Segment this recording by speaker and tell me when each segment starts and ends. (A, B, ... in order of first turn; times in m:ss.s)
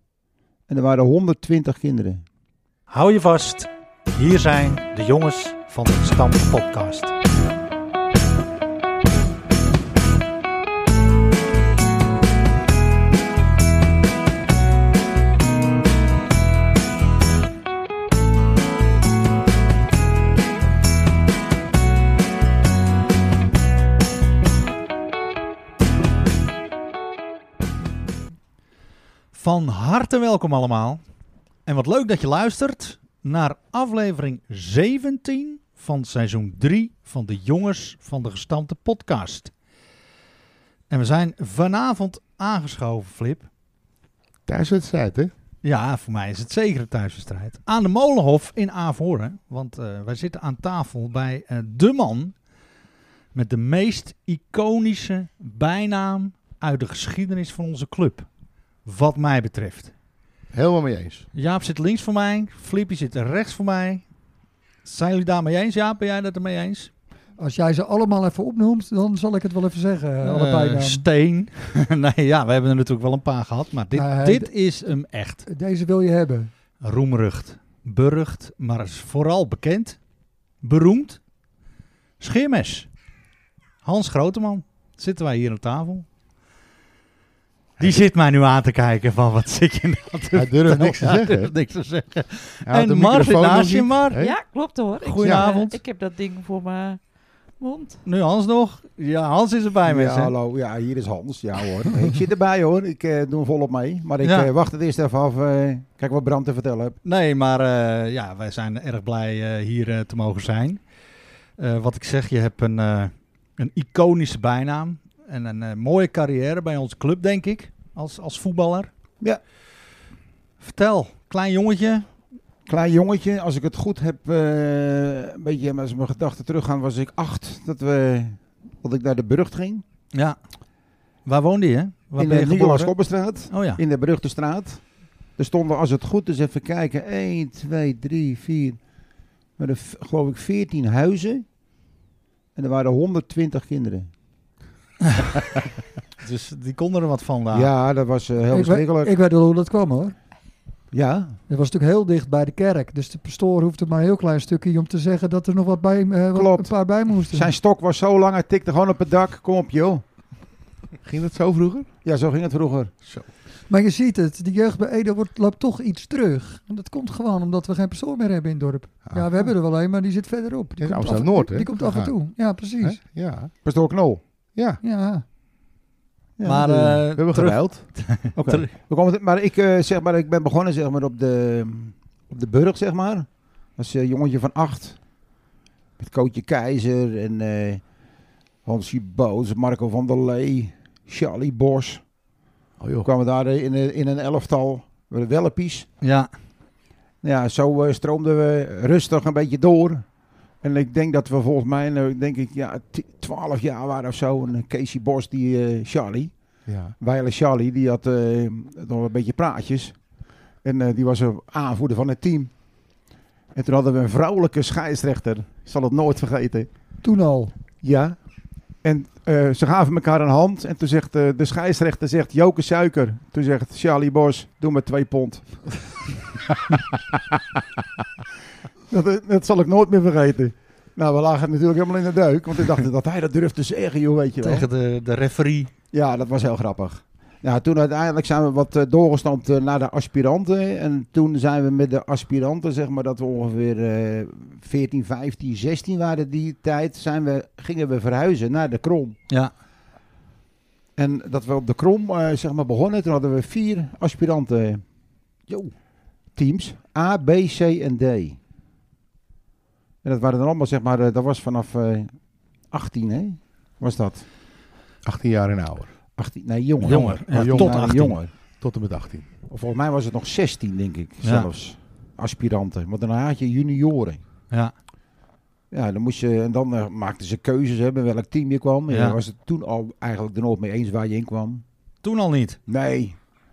0:00.7-0:02.2 A
0:02.9-0:07.1 B
0:29.3-0:31.0 B
0:31.6-0:39.5 B
0:40.9-0:43.5 B
0:44.4-0:45.3 C
0:45.6-0:52.3 B
0:53.3-0:58.3 B
0:58.8-0:59.9 B
1:00.5-1:01.3 C
1:01.3-1:04.0 B
1:04.8-1:06.9 B
1:07.4-1:11.0 D
1:10.2-1:15.4 B
1:14.0-1:14.5 D
1:15.4-1:16.5 D
1:16.8-1:20.0 B
1:20.6-1:21.2 B
1:22.2-1:22.9 B
1:23.8-1:26.0 B
1:27.8-1:34.2 B
1:30.3-1:31.5 C
1:32.6-1:34.4 C
1:34.2-1:37.0 E
1:35.0-1:35.8 B
1:35.2-1:35.5 C
1:37.6-1:38.0 E
1:38.0-1:40.3 B
1:39.8-1:47.0 A
1:44.2-1:44.5 B
1:47.0-1:50.8 B
1:51.6-1:58.9 B
2:00.6-2:02.1 B
2:02.7-2:09.8 A
2:11.2-2:12.9 B
2:12.2-2:14.8 A
2:13.5-2:13.8 B
2:15.4-2:18.8 A
2:19.6-2:21.4 A
2:22.6-2:24.1 A
2:26.2-2:27.7 B
2:27.5-2:29.1 A
2:28.5-2:30.2 D
2:30.9-2:31.4 A
2:31.5-2:37.5 D
2:36.3-2:40.0 A
2:41.0-2:41.9 C
2:42.0-2:42.9 A
2:43.7-2:53.0 D
2:49.1-2:49.5 C
2:50.8-2:53.5 C
2:53.6-2:54.2 A
2:54.5-2:54.8 C
2:54.8-2:55.2 D
2:56.4-2:57.0 A
2:56.4-2:58.7 B
2:56.7-2:57.9 C
2:58.3-3:05.0 A
3:06.0-3:07.8 A
3:08.6-3:12.0 A
3:12.8-3:13.1 C
3:13.0-3:15.9 A
3:16.0-3:16.3 B
3:17.2-3:20.0 A
3:20.6-3:26.3 A
3:26.6-3:26.9 C
3:27.0-3:30.0 A
3:30.6-3:32.6 A
3:33.5-3:36.7 A
3:37.0-3:37.5 D
3:37.8-3:38.2 A
3:38.8-3:45.9 A
3:48.9-3:54.7 A
3:54.4-3:55.7 B
3:55.9-4:09.2 A
4:11.0-4:14.8 A
4:16.3-4:18.4 A
4:20.0-4:22.1 A
4:22.7-4:24.2 A
4:25.0-4:25.9 C
4:26.2-4:28.3 A
4:26.8-4:27.8 C
4:26.8-4:28.2 B
4:28.6-4:29.2 C
4:29.5-4:34.2 A
4:31.2-4:31.5 B
4:35.7-4:41.6 A
4:38.9-4:39.2 B
4:42.0-4:42.6 B
4:42.7-4:43.2 A